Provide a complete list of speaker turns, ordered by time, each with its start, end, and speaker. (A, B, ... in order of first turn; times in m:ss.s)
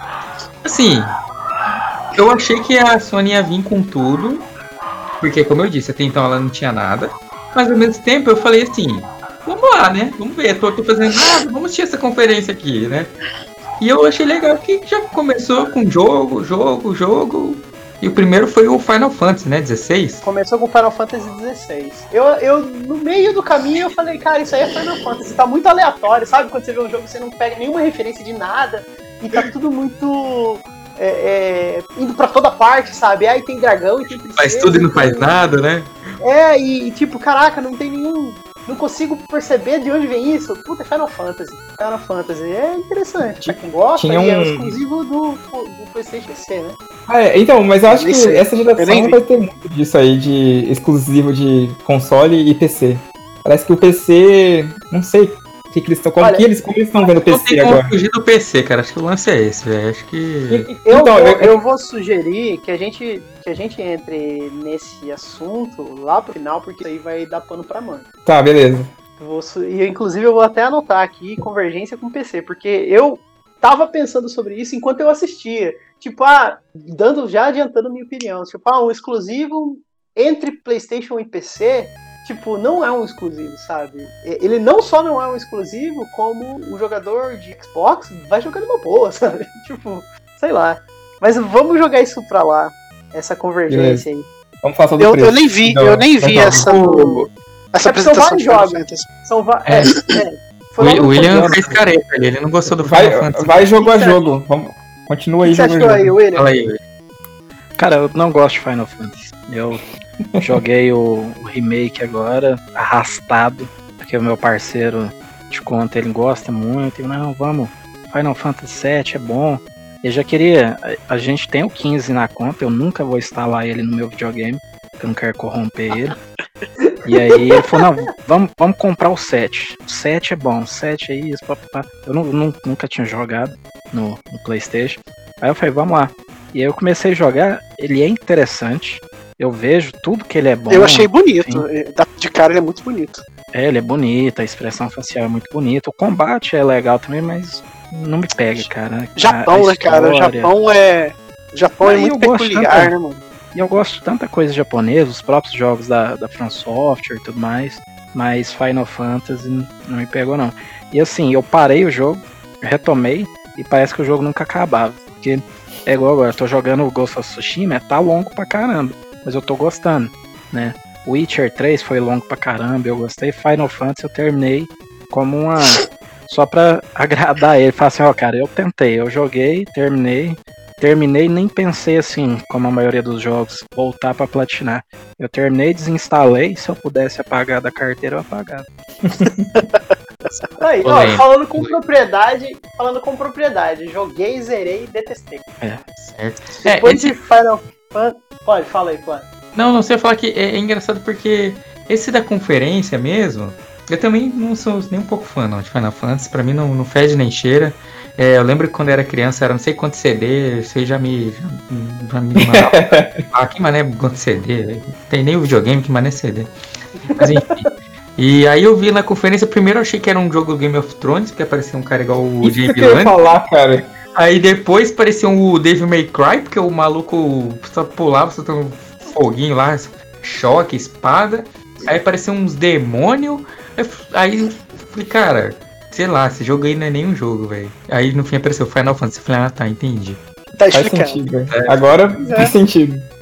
0:00.6-0:01.2 A
0:02.1-0:04.5 A
0:05.2-0:13.1 A
0:13.8-0:20.3 A
0:20.2-0:35.5 B
0:34.4-0:35.9 A
0:36.2-0:46.8 B
0:44.0-0:44.8 C
0:47.1-0:57.9 C
0:47.9-0:49.2 D
0:56.2-0:56.5 B
0:57.2-1:00.7 A
1:00.5-1:01.6 C
1:00.7-1:08.1 B
1:08.3-1:08.9 C
1:09.2-1:34.3 B
1:33.7-1:34.1 C
1:34.6-1:37.0 C
1:35.0-1:36.8 D
1:36.4-1:37.2 A
1:36.6-1:37.3 B
1:37.7-1:39.1 D
1:37.8-1:41.7 B
1:39.7-1:40.2 D
1:40.8-1:43.7 A
1:41.2-1:41.8 E
1:42.8-1:46.2 C
1:43.8-1:44.3 B
1:45.4-1:46.5 B
1:46.3-1:46.8 A
1:47.8-1:49.9 E
1:50.4-1:50.6 C
1:50.4-2:06.2 E
2:06.8-2:07.4 B
2:07.0-2:21.6 E
2:20.7-2:23.2 D
2:23.5-2:30.5 E
2:28.6-2:33.2 D
2:31.8-2:32.9 E
2:33.5-3:08.7 E
3:09.6-3:10.6 D
3:10.6-3:15.4 B
3:10.8-3:11.8 A
3:16.0-3:17.1 A
3:16.6-3:19.3 B
3:19.6-3:36.5 A
3:32.4-3:33.2 C
3:37.1-3:43.2 A
3:42.4-3:43.9 C
3:44.2-4:00.2 A
4:00.6-4:01.3 D
4:00.7-4:03.1 C
4:01.5-4:01.9 A
4:02.2-4:02.5 B